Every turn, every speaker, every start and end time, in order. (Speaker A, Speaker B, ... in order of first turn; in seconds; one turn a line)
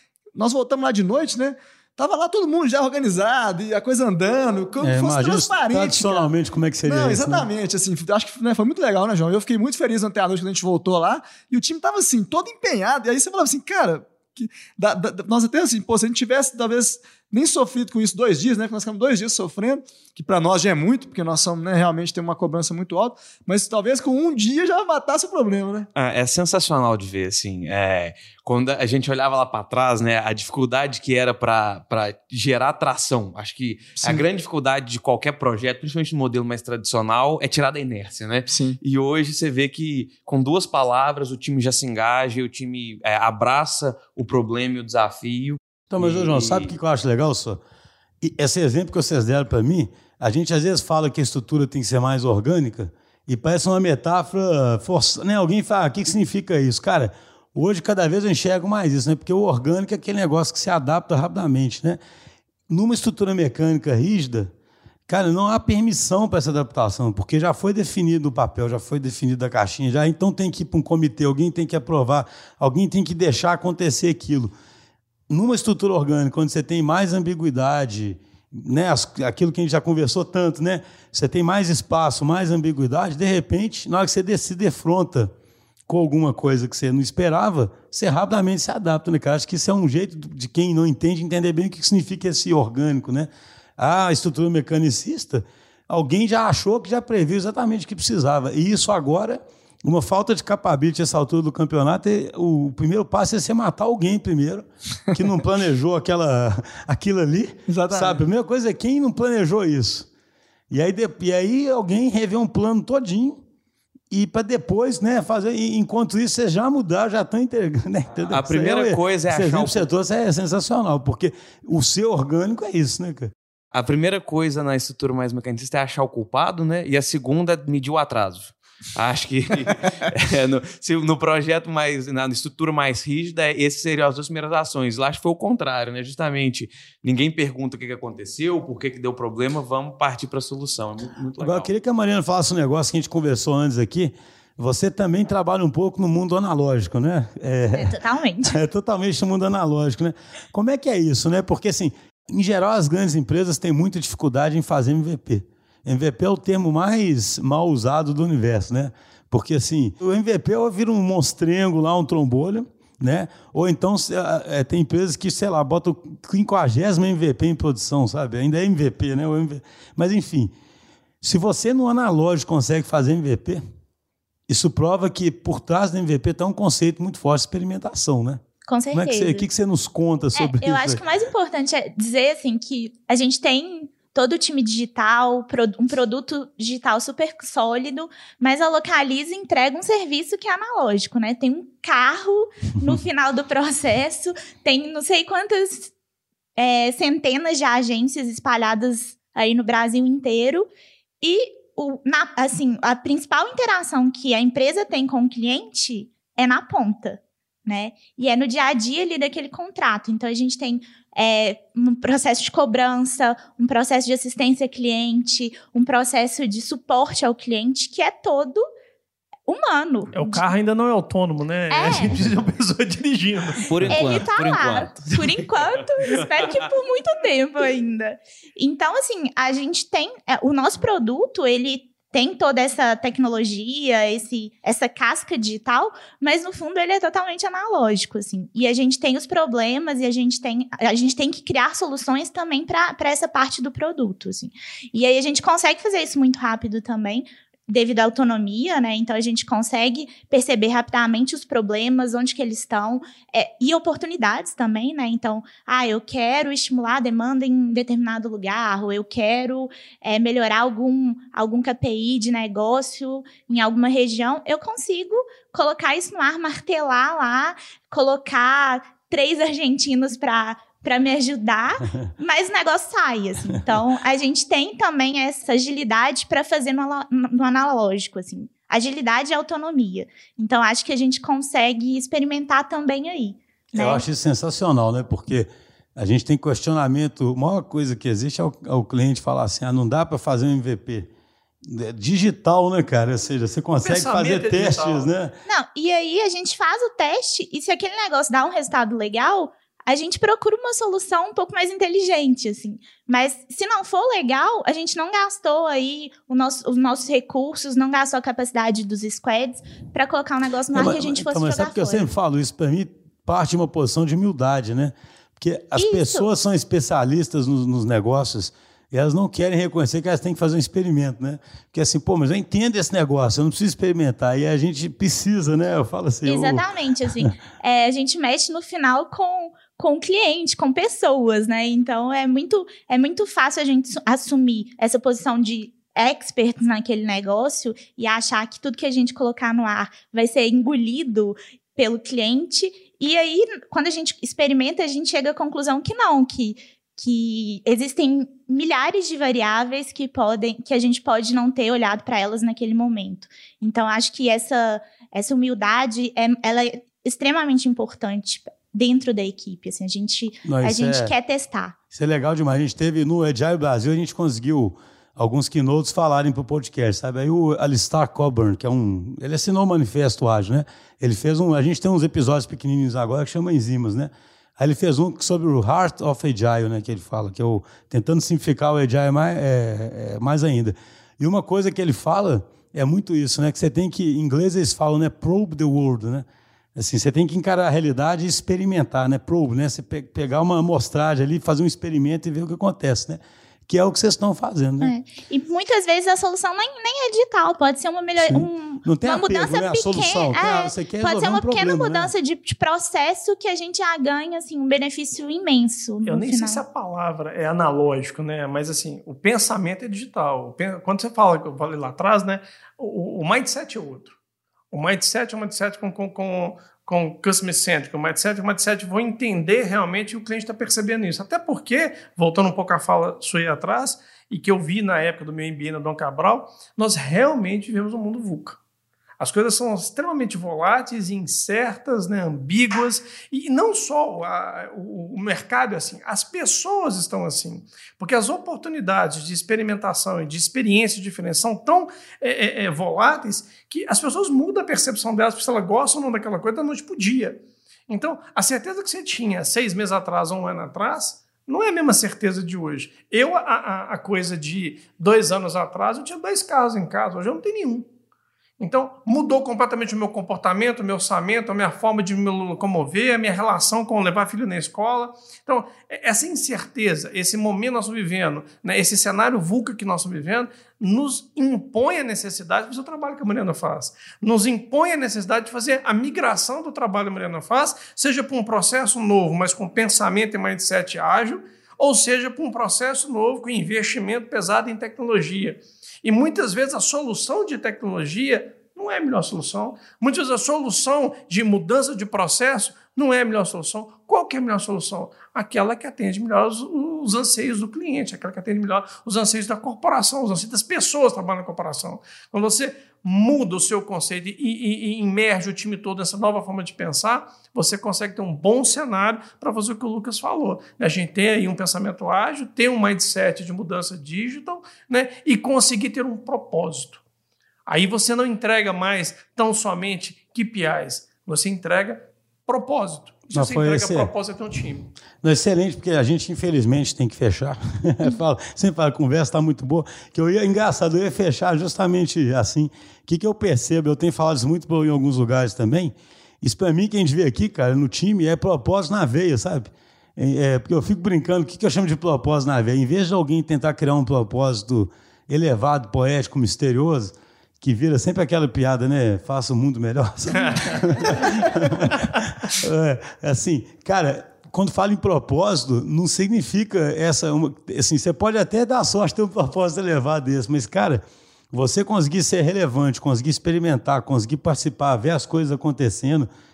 Speaker A: 0.3-6.3
Speaker B: 4.8-7.5
Speaker A: 6.8-25.9
Speaker C: 26.0-46.7
Speaker A: 34.0-34.3
Speaker A: 38.5-38.8
Speaker B: 45.9-47.6
Speaker B: 48.2-62.0
Speaker B: 62.7-64.5
Speaker B: 65.1-74.5
Speaker B: 75.3-85.3
Speaker B: 85.9-110.1
Speaker A: 107.7-108.2
Speaker B: 110.7-113.4
Speaker B: 114.1-123.3
Speaker C: 118.3-119.9
Speaker C: 123.7-141.7
Speaker B: 141.4-170.5
Speaker D: 147.7-148.6
Speaker B: 171.2-173.6
Speaker B: 174.5-178.4
Speaker D: 178.7-179.5
Speaker B: 178.9-181.0
Speaker D: 180.3-195.9
Speaker D: 196.6-200.7
Speaker D: 201.2-218.7
Speaker D: 219.5-220.5
Speaker E: 220.1-224.1
Speaker D: 221.7-222.2
Speaker C: 223.7-225.4
Speaker D: 223.9-284.1
Speaker C: 226.0-226.5
Speaker B: 283.7-291.1
Speaker B: 291.6-295.3
Speaker E: 293.8-295.1
Speaker D: 295.4-312.1
Speaker B: 310.7-326.7
Speaker D: 315.8-316.3
Speaker D: 326.2-361.8
Speaker B: 360.5-361.1
Speaker B: 361.9-394.9
Speaker D: 394.8-406.6
Speaker B: 398.2-402.1
Speaker E: 406.0-414.1
Speaker E: 414.7-428.6
Speaker E: 429.2-457.9
Speaker E: 458.6-517.0
Speaker E: 517.7-524.9
Speaker B: 523.3-524.1
Speaker B: 525.2-561.0
Speaker E: 550.4-550.7
Speaker B: 561.5-566.3